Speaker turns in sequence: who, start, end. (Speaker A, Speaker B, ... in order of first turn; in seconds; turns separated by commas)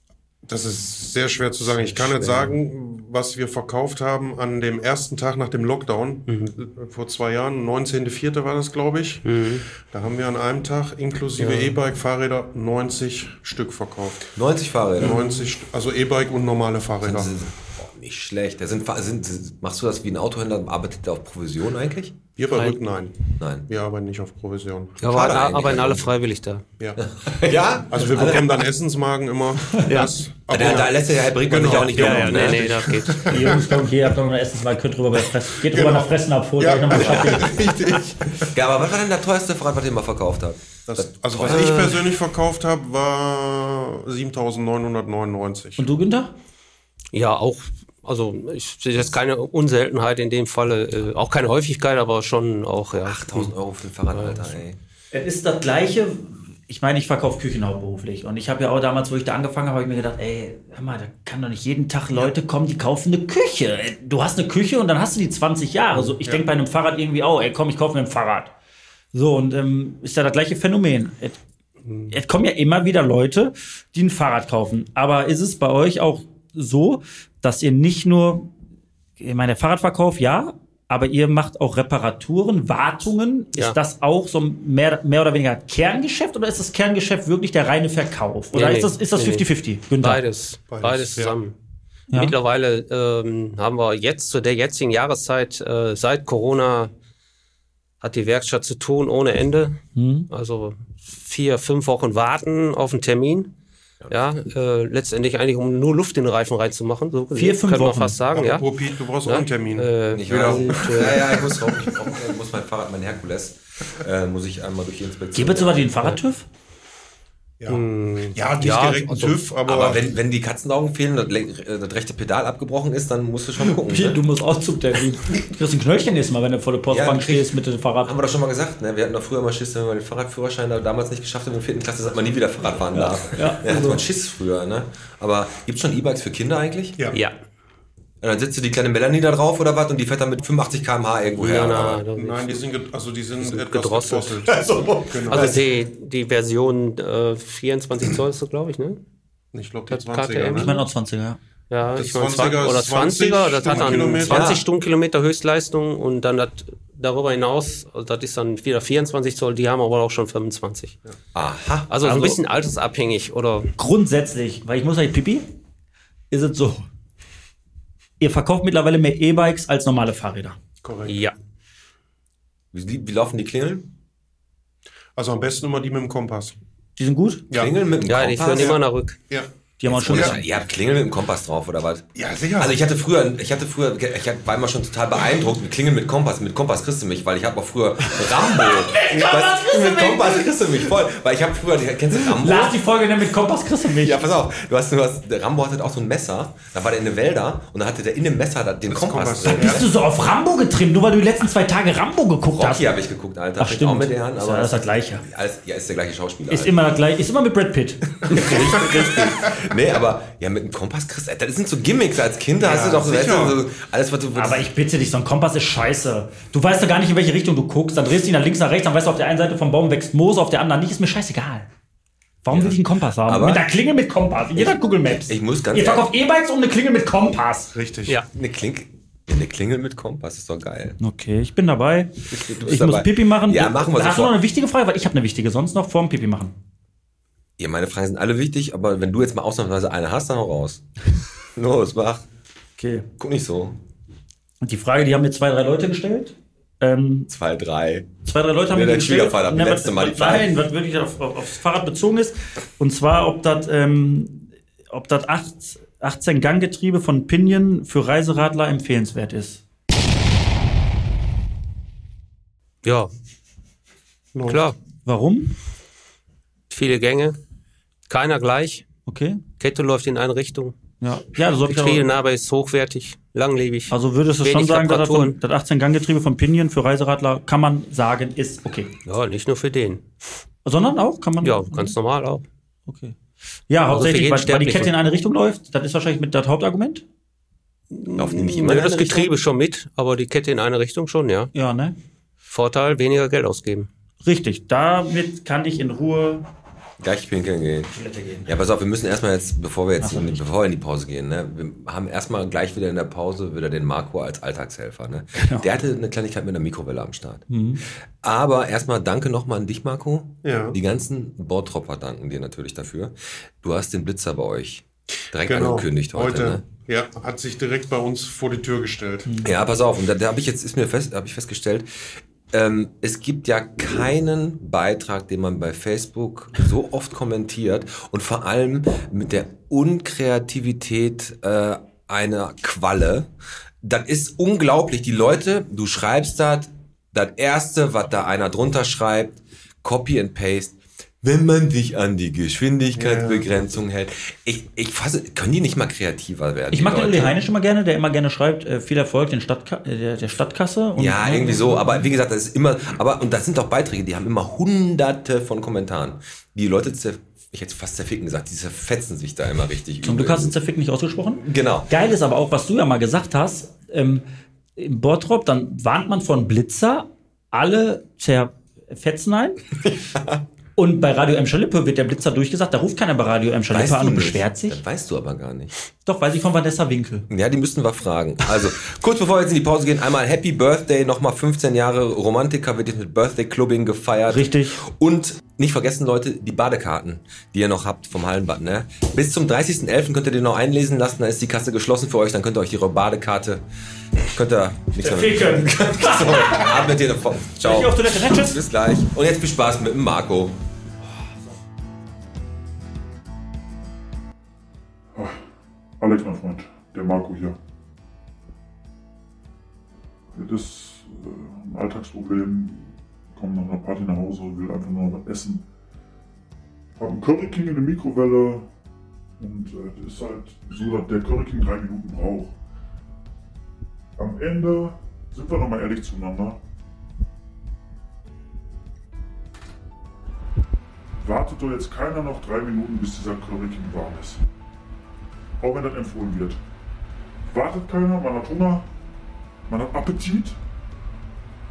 Speaker A: 0.5-9.3, Speaker B: 1.7-2.5, Speaker B: 6.3-6.5, Speaker B: 9.2-9.6, Speaker A: 9.8-14.3, Speaker B: 11.4-11.8, Speaker C: 14.3-15.2, Speaker B: 15.0-15.5, Speaker A: 15.0-17.3, Speaker C: 17.0-22.2, Speaker A: 22.4-25.4, Speaker B: 22.5-22.9, Speaker C: 23.4-23.7, Speaker B: 25.0-26.6, Speaker C: 25.1-26.1, Speaker C: 27.0-28.6, Speaker A: 27.9-33.6, Speaker B: 29.8-30.1, Speaker C: 30.5-32.9, Speaker B: 31.8-33.3, Speaker D: 33.3-37.7, Speaker A: 35.6-38.1, Speaker C: 37.0-41.7, Speaker A: 40.9-45.9, Speaker B: 41.4-42.0, Speaker D: 45.8-46.3, Speaker B: 47.1-53.5, Speaker C: 53.0-54.8, Speaker B: 54.1-54.5, Speaker D: 55.1-68.5, Speaker D: 69.1-71.4, Speaker B: 71.9-72.1, Speaker D: 72.1-78.5, Speaker D: 79.2-90.2, Speaker B: 88.5-91.5, Speaker A: 90.7-91.4, Speaker D: 92.1-92.3, Speaker B: 92.1-96.9, Speaker B: 98.0-99.8, Speaker D: 100.0-100.3, Speaker B: 100.3-103.5, Speaker B: 104.1-108.7, Speaker D: 107.3-108.2, Speaker A: 108.3-111.2, Speaker B: 109.2-111.3, Speaker C: 110.1-115.9, Speaker D: 115.3-116.4, Speaker A: 117.6-120.0, Speaker B: 117.7-119.5, Speaker C: 119.7-124.2, Speaker D: 123.9-128.1, Speaker C: 126.9-127.5, Speaker C: 128.0-137.0, Speaker D: 133.3-134.0, Speaker C: 138.2-142.0, Speaker B: 141.4-142.7, Speaker A: 142.1-145.6, Speaker B: 143.4-144.4, Speaker C: 144.5-145.6, Speaker B: 145.3-149.0, Speaker A: 149.5-150.7, Speaker B: 149.9-150.7, Speaker D: 150.5-151.4, Speaker B: 151.7-161.0, Speaker A: 151.9-154.6, Speaker D: 153.8-154.1, Speaker C: 154.3-154.6, Speaker C: 161.3-162.3, Speaker B: 161.9-163.7, Speaker D: 163.8-165.4, Speaker D: 166.3-166.8, Speaker D: 168.2-170.6, Speaker A: 170.8-171.2, Speaker B: 171.1-171.3, Speaker C: 172.7-173.9, Speaker A: 175.2-176.6, Speaker D: 177.0-177.4, Speaker A: 177.5-177.8, Speaker C: 177.5-178.8, Speaker B: 178.0-179.2, Speaker D: 179.8-180.4, Speaker C: 179.9-192.8, Speaker A: 182.2-182.7, Speaker D: 188.4-190.5, Speaker D: 192.2-194.2, Speaker C: 194.0-199.9, Speaker A: 198.9-199.8, Speaker D: 199.5-202.9, Speaker C: 202.5-206.8, Speaker D: 203.6-205.2, Speaker D: 206.5-208.6, Speaker C: 208.3-214.7, Speaker A: 212.6-213.6, Speaker D: 214.3-221.7, Speaker D: 222.4-227.7, Speaker C: 222.5-223.7, Speaker C: 225.3-226.1, Speaker A: 227.7-228.2, Speaker C: 228.3-231.0, Speaker D: 231.0-236.5, Speaker C: 232.3-234.4, Speaker C: 237.6-240.8, Speaker C: 241.6-242.3, Speaker D: 242.8-243.1, Speaker C: 243.2-243.8, Speaker D: 244.6-247.3, Speaker C: 247.3-248.1, Speaker D: 248.2-259.6, Speaker C: 248.7-250.5, Speaker B: 262.8-263.1, Speaker A: 264.4-264.7, Speaker B: 264.4-264.8, Speaker D: 265.1-265.5, Speaker B: 266.7-267.4, Speaker B: 268.1-268.9, Speaker D: 269.1-269.4, Speaker B: 269.6-270.8, Speaker D: 271.0-272.1, Speaker B: 271.6-275.4, Speaker D: 273.9-278.9, Speaker B: 279.1-280.1, Speaker D: 280.6-281.9, Speaker B: 281.4-282.4, Speaker D: 282.9-283.1, Speaker D: 283.7-287.0, Speaker B: 283.9-284.9, Speaker B: 287.9-291.5, Speaker C: 288.2-289.1, Speaker D: 289.0-289.3, Speaker D: 291.5-292.0, Speaker B: 292.5-293.9, Speaker D: 294.2-296.4, Speaker C: 297.0-297.9, Speaker D: 297.9-298.5, Speaker C: 298.5-307.4, Speaker D: 300.0-300.4, Speaker D: 305.4-305.7, Speaker D: 307.5-307.8, Speaker C: 308.2-316.6, Speaker A: 310.4-310.8, Speaker A: 315.4-319.3, Speaker C: 319.4-321.9, Speaker C: 322.5-333.3, Speaker C: 333.8-347.4, Speaker A: 343.0-343.5, Speaker D: 346.7-352.1, Speaker C: 351.0-360.6, Speaker D: 360.0-364.2, Speaker C: 361.4-361.9, Speaker D: 364.8-369.6, Speaker C: 369.9-370.4, Speaker D: 370.8-374.8, Speaker C: 373.7-375.7, Speaker D: 376.1-377.3, Speaker C: 377.3-393.6, Speaker D: 384.3-384.8, Speaker C: 394.3-400.6, Speaker D: 395.0-396.9, Speaker D: 397.6-398.6, Speaker E: 406.0-407.6, Speaker E: 410.3-415.6, Speaker E: 417.0-418.7, Speaker E: 419.4-422.6, Speaker E: 424.2-426.6, Speaker E: 431.2-434.4, Speaker E: 435.6-436.6, Speaker E: 437.4-438.9, Speaker E: 439.7-440.6